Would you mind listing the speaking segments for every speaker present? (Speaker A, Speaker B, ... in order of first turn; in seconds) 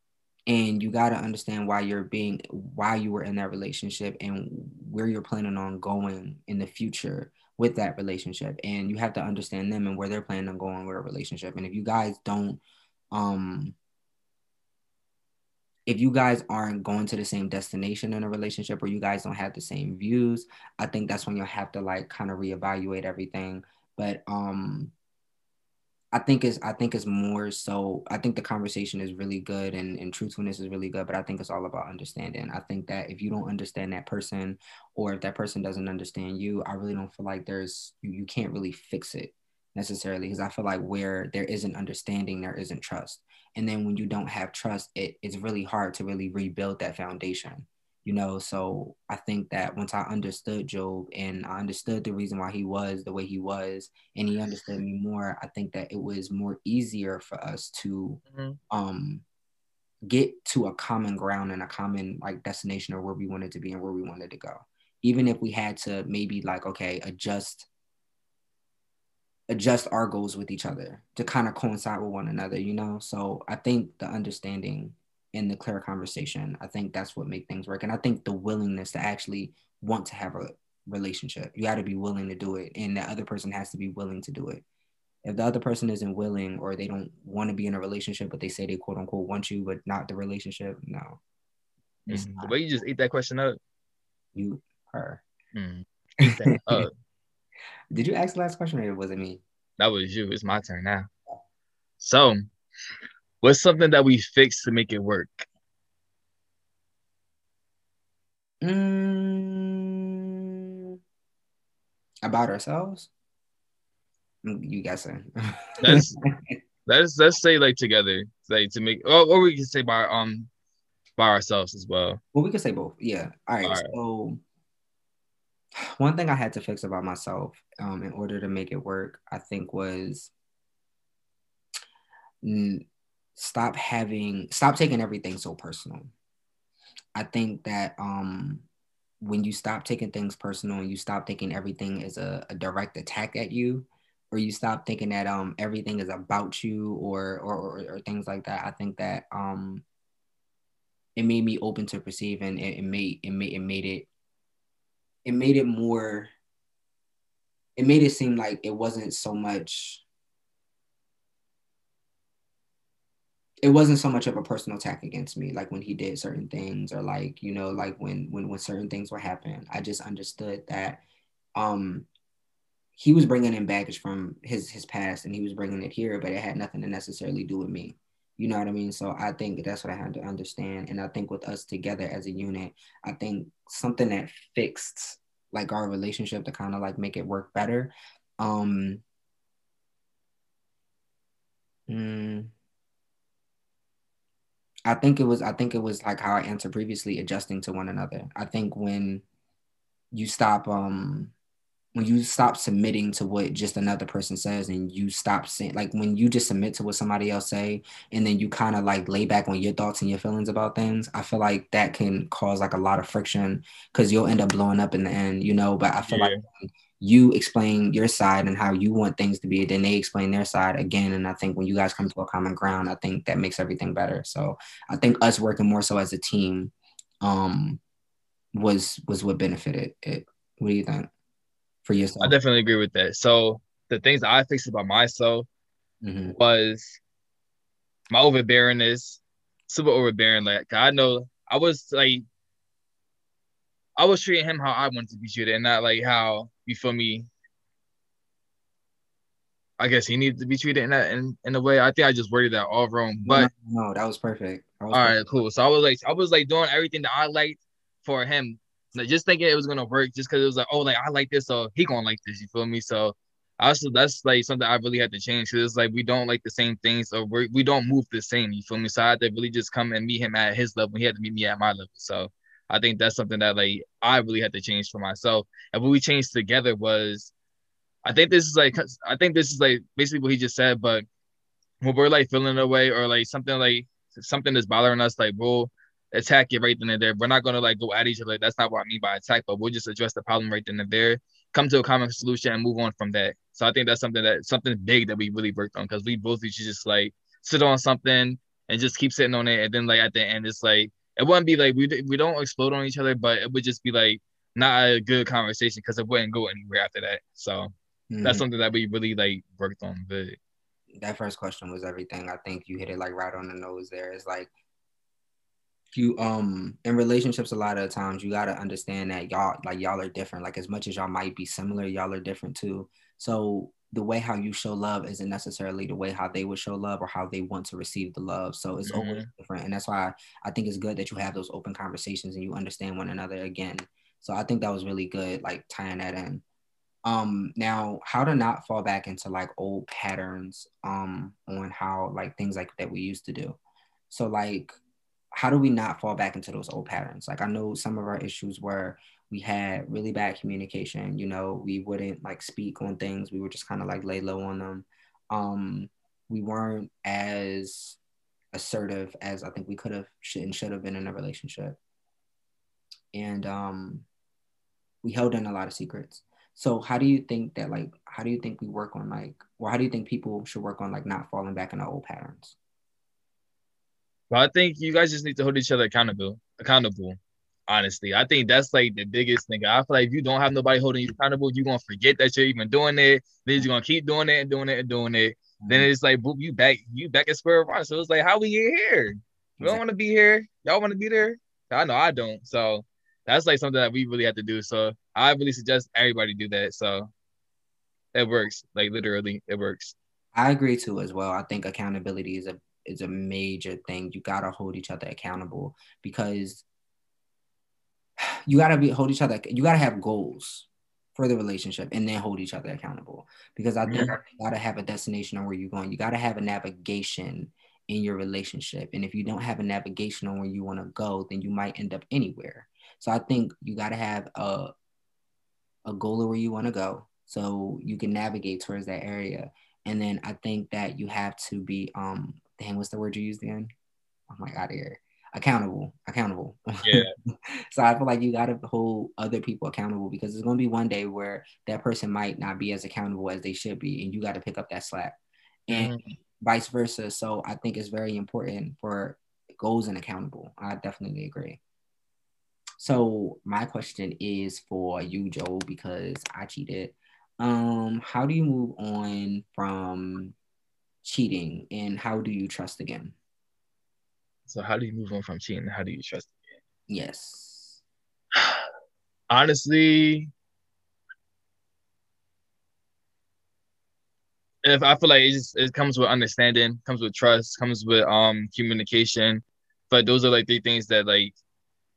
Speaker A: 0.5-12.6, 13.1-13.8, 15.8-24.9, 26.1-59.2, 60.1-67.7, 69.5-84.6, 85.2-91.2, 92.1-92.5, 94.3-95.2, 96.2-96.8, 97.9-99.4, 108.6-110.0, 112.2-113.1, 114.4-116.5, 122.3-124.4, 125.8-130.3, 132.4-136.1, 137.1-138.7, 139.2-149.8, 151.2-154.1, 155.2-156.3, 157.8-160.0, 163.6-171.0, 171.5-172.1, 173.0-189.0, 191.9-192.5, 194.8-199.2, 200.1-201.3, 201.9-227.8, 228.5-231.1, 231.8-232.3, 236.0-236.3, 253.2-255.3, 308.1-308.4, 310.9-314.5, 315.9-336.4, 337.0-343.6, 344.1-344.8, 345.3-358.0, 358.5-361.8, 363.1-364.1, 365.0-372.6, 385.6-385.9, 400.3-406.6, 408.4-424.7, 425.9-433.7, 434.3-445.1, 445.7-451.6, 452.8-460.3, 461.0-463.1, 466.9-467.8
Speaker B: 58.3-58.6, 92.1-93.6, 95.5-96.9, 99.8-101.1, 102.0-102.5, 103.4-105.5, 115.8-116.2, 116.8-120.5, 121.2-122.2, 123.6-124.0, 216.0-216.4, 232.2-235.5, 236.3-237.0, 238.1-242.2, 244.0-247.3, 249.8-253.5, 254.9-277.3, 278.0-281.0, 281.8-310.4, 328.9-329.3, 374.3-397.1, 398.1-399.9, 413.9-414.1, 436.8-437.1, 445.7-446.1, 464.5-466.3, 468.4-468.6, 469.3-470.3, 474.6-481.3